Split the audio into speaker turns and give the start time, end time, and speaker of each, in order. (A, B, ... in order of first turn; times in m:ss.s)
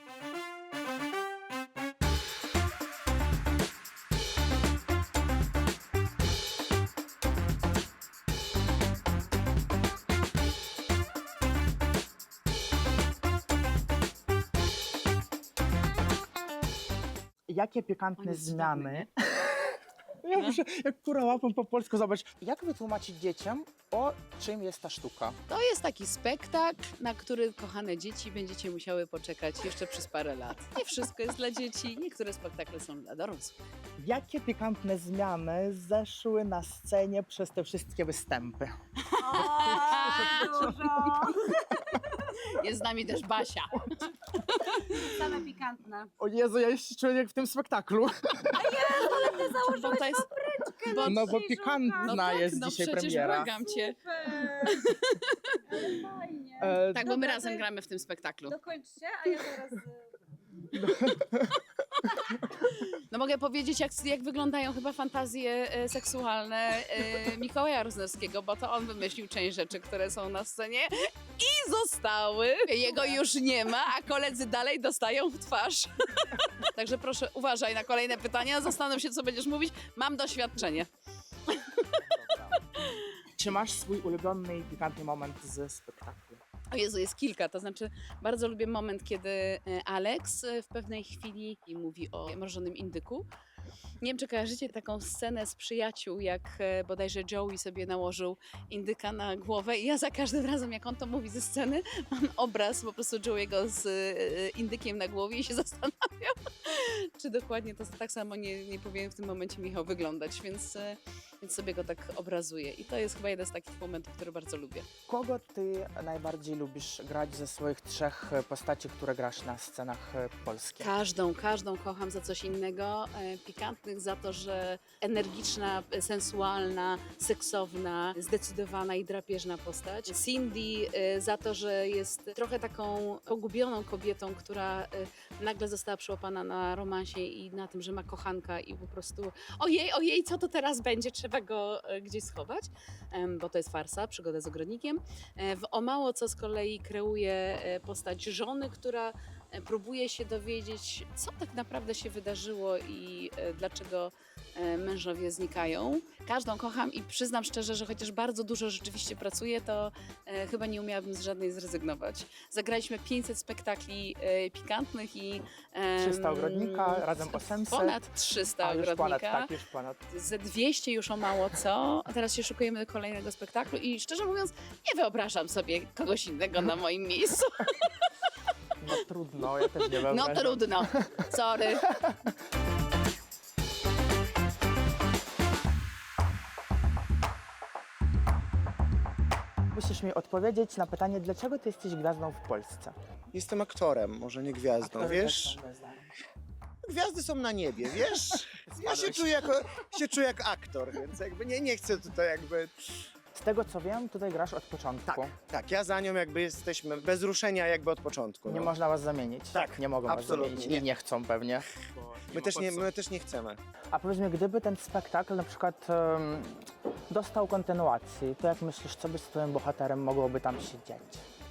0:17.5-0:25.4 A
0:18.2-0:19.0 B
0:20.3-0:20.6 B
0:25.5-0:33.6 B
0:34.0-0:38.7 A
0:39.2-0:42.3 C
0:39.4-0:40.7 B
0:40.1-0:41.3 A
0:42.6-0:45.0 B
0:44.9-0:46.1 C
0:46.2-0:48.7 A
0:48.5-0:52.3 C
0:49.5-0:50.3 B
0:50.9-0:51.4 B
0:51.0-0:53.5 A
0:52.0-0:55.6 B
0:53.2-0:54.8 C
0:55.7-0:57.7 C
0:56.6-0:57.1 A
0:56.9-0:58.6 B
0:58.5-1:00.0 C
1:00.8-1:01.6 A
1:02.0-1:02.8 C
1:03.1-1:20.9 B
1:21.5-1:22.0 B
1:22.0-1:22.6 A
1:23.4-1:26.4 A
1:26.7-1:33.2 B
1:34.0-1:54.9 B
1:55.1-2:00.9 A
2:00.8-2:49.5 B
2:46.0-2:48.1 A
2:48.6-2:50.0 A
2:50.1-2:57.9 B
2:58.8-3:00.9 A
2:59.6-3:01.8 B
3:09.7-3:12.9 A
3:13.3-3:15.6 D
3:14.8-3:16.1 A
3:16.8-3:22.7 D
3:18.7-3:19.4 A
3:23.3-3:25.4 A
3:25.5-3:28.7 D
3:28.5-3:32.9 A
3:29.5-3:30.8 D
3:32.3-3:33.6 D
3:33.9-3:41.2 A